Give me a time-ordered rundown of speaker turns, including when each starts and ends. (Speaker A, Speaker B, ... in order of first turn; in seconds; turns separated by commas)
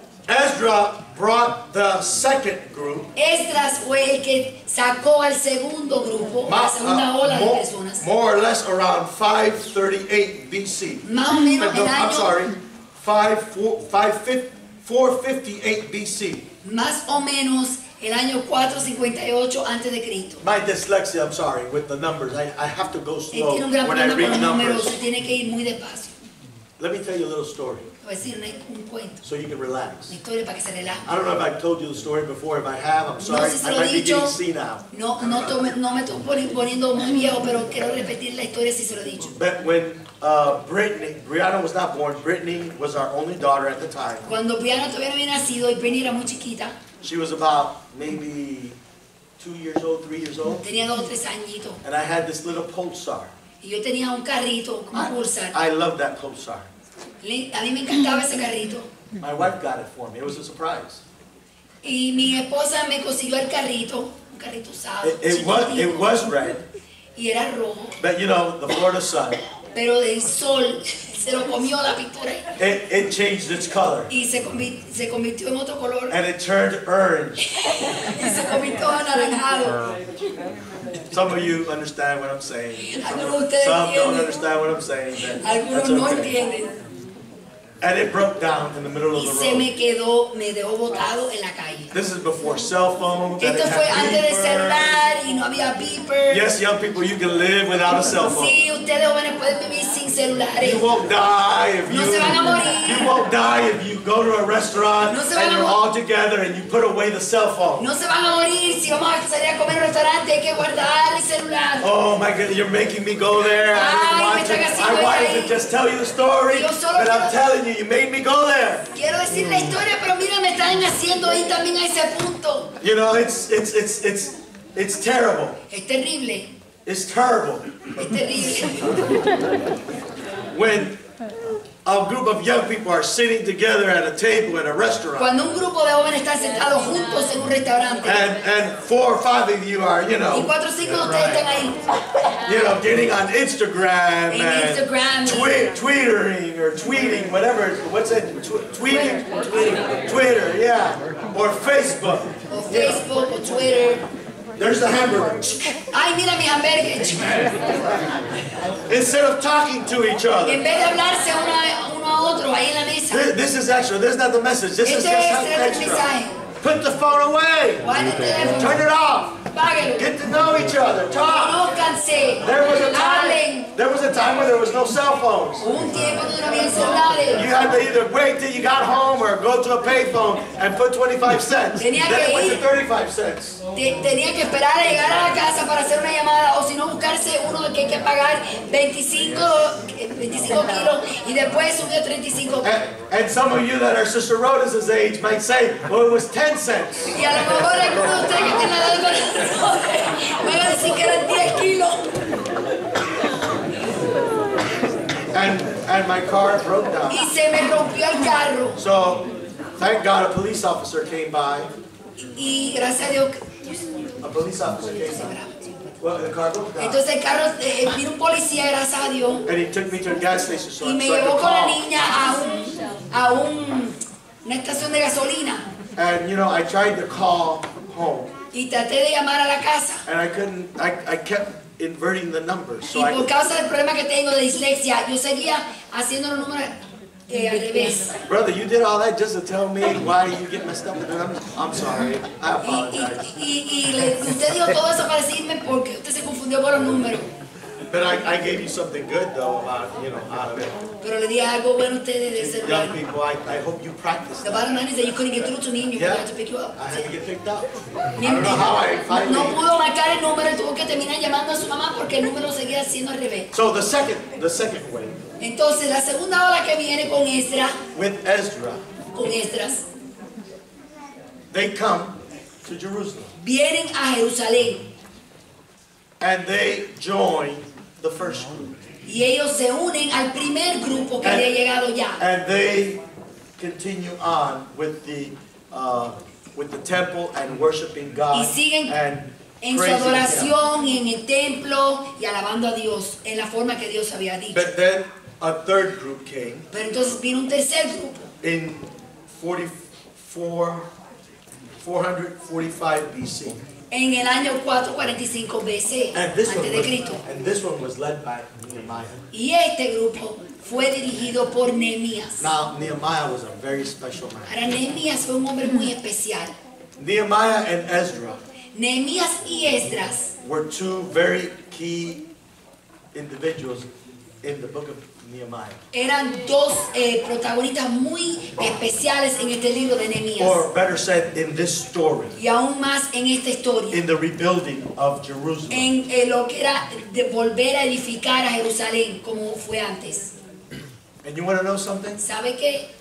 Speaker A: 0.3-3.1, Speaker B: 3.1-8.0, Speaker A: 6.5-16.5, Speaker B: 11.0-12.4, Speaker B: 16.6-20.4, Speaker A: 20.4-24.9, Speaker B: 23.3-26.1, Speaker A: 26.8-27.9, Speaker B: 28.0-29.2, Speaker A: 29.2-30.1, Speaker B: 30.1-31.0, Speaker A: 31.1-34.8, Speaker B: 33.2-34.3, Speaker B: 34.9-39.3, Speaker A: 39.4-44.3, Speaker B: 44.3-46.8, Speaker A: 47.0-48.8, Speaker A: 49.4-50.6, Speaker B: 50.6-51.8, Speaker A: 51.8-53.3, Speaker B: 53.6-55.5, Speaker A: 54.9-56.7, Speaker B: 57.2-58.9, Speaker A: 59.2-61.0, Speaker B: 61.8-66.3, Speaker A: 65.0-66.6, Speaker B: 67.2-68.0, Speaker A: 68.0-69.4, Speaker B: 69.7-72.4, Speaker A: 72.6-74.1, Speaker B: 74.1-76.2, Speaker A: 76.1-77.4, Speaker B: 77.5-79.8, Speaker A: 81.1-86.3, Speaker B: 82.8-84.3, Speaker B: 85.4-86.8, Speaker A: 87.8-89.7, Speaker B: 89.1-91.9, Speaker A: 91.9-95.0, Speaker B: 93.4-96.5, Speaker A: 96.3-98.6, Speaker B: 98.3-100.8, Speaker A: 100.6-107.9, Speaker B: 101.9-103.1, Speaker B: 105.1-105.8, Speaker B: 107.8-111.9, Speaker A: 111.8-118.8, Speaker B: 113.7-115.6, Speaker B: 116.5-117.4, Speaker B: 118.9-122.7, Speaker A: 122.8-125.6, Speaker B: 125.7-126.5, Speaker A: 126.8-127.8, Speaker B: 128.0-129.0, Speaker A: 130.5-131.0, Speaker A: 131.8-135.3, Speaker B: 135.2-138.4, Speaker A: 138.0-141.4, Speaker B: 140.3-142.3, Speaker A: 142.4-149.2, Speaker B: 144.3-145.5, Speaker B: 148.9-150.0, Speaker A: 150.0-153.0, Speaker B: 152.5-154.0, Speaker A: 154.6-155.7, Speaker B: 155.9-157.4, Speaker A: 158.9-160.7, Speaker B: 160.5-163.3, Speaker A: 163.1-166.1, Speaker B: 164.8-166.4, Speaker A: 166.6-167.8, Speaker B: 167.8-168.8, Speaker A: 168.5-169.4, Speaker B: 169.5-170.1, Speaker A: 170.0-171.6, Speaker B: 171.2-173.7, Speaker A: 172.4-175.6, Speaker B: 175.6-177.5, Speaker A: 177.3-183.6, Speaker B: 181.8-182.6, Speaker B: 183.7-192.7, Speaker A: 192.6-197.3, Speaker B: 197.1-202.2, Speaker A: 198.2-198.5, Speaker A: 205.3-207.2, Speaker B: 207.1-208.8, Speaker A: 208.8-209.3, Speaker A: 209.8-211.7, Speaker B: 212.3-213.8, Speaker A: 214.2-215.3, Speaker B: 215.0-215.8, Speaker A: 216.0-217.0, Speaker B: 216.8-219.4, Speaker A: 219.4-221.8, Speaker B: 220.8-225.7, Speaker A: 225.9-228.3, Speaker B: 228.5-230.0, Speaker A: 230.0-233.3, Speaker B: 232.9-236.7, Speaker B: 237.3-238.2, Speaker A: 238.3-243.3, Speaker B: 242.6-247.3, Speaker A: 247.9-250.8, Speaker B: 251.0-252.9, Speaker A: 252.3-254.6, Speaker B: 254.4-257.1, Speaker A: 255.9-256.2, Speaker A: 256.8-257.6, Speaker B: 258.2-263.5, Speaker A: 258.2-259.6, Speaker A: 263.5-265.2, Speaker B: 265.4-267.8, Speaker A: 267.9-268.8, Speaker B: 269.1-269.8, Speaker A: 271.5-273.3, Speaker B: 273.4-274.9, Speaker A: 276.2-278.8, Speaker B: 279.1-282.2, Speaker A: 281.2-281.5, Speaker A: 282.2-283.0, Speaker A: 283.6-290.5, Speaker B: 288.3-289.0, Speaker B: 289.6-294.7, Speaker A: 294.5-296.7, Speaker B: 296.7-298.3, Speaker A: 298.4-300.9, Speaker A: 301.8-303.6, Speaker B: 303.9-307.2, Speaker A: 306.1-309.2, Speaker B: 309.3-312.5, Speaker A: 312.4-314.5, Speaker B: 314.5-316.5, Speaker A: 317.0-318.4, Speaker B: 318.7-320.3, Speaker A: 320.4-322.2, Speaker A: 323.1-323.9, Speaker A: 324.4-325.8, Speaker B: 325.9-330.6, Speaker A: 330.4-332.4, Speaker B: 332.4-334.0, Speaker A: 333.9-335.9, Speaker B: 335.7-340.3, Speaker A: 341.2-342.2, Speaker B: 342.2-342.9